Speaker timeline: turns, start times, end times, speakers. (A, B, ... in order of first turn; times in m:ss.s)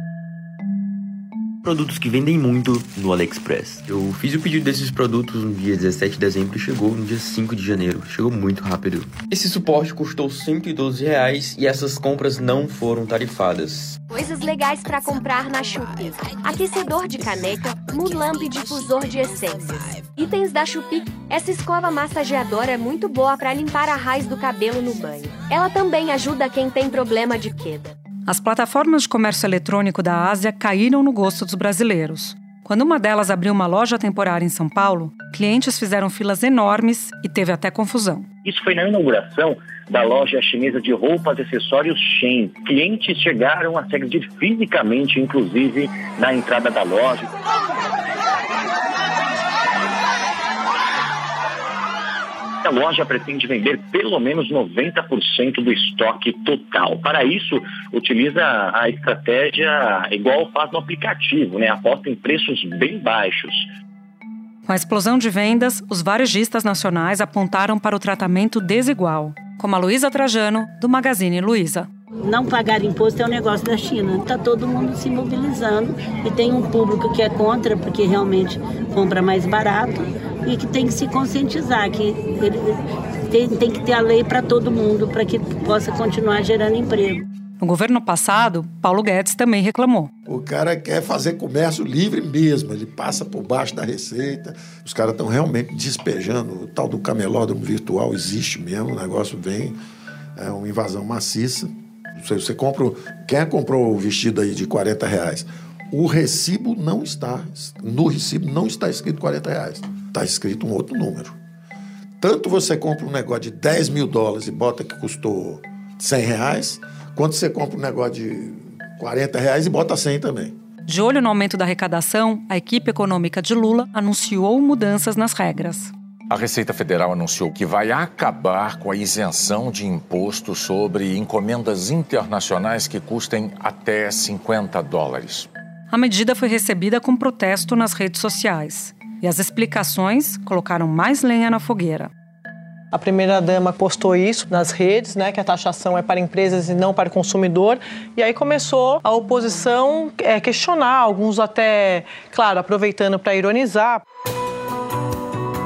0:01.6-0:14.0 A
0:14.1-0:27.9 B
0:28.3-0:38.2 C
0:38.4-0:47.3 D
0:52.6-1:03.7 D
1:04.7-1:11.9 C
1:12.2-1:27.3 E
1:27.6-1:30.1 C
1:30.2-1:39.8 F
1:40.4-1:51.4 F
1:52.2-2:00.5 F
2:00.8-2:05.9 C
2:06.3-2:15.5 G
2:15.9-2:22.1 C
2:22.9-2:34.0 H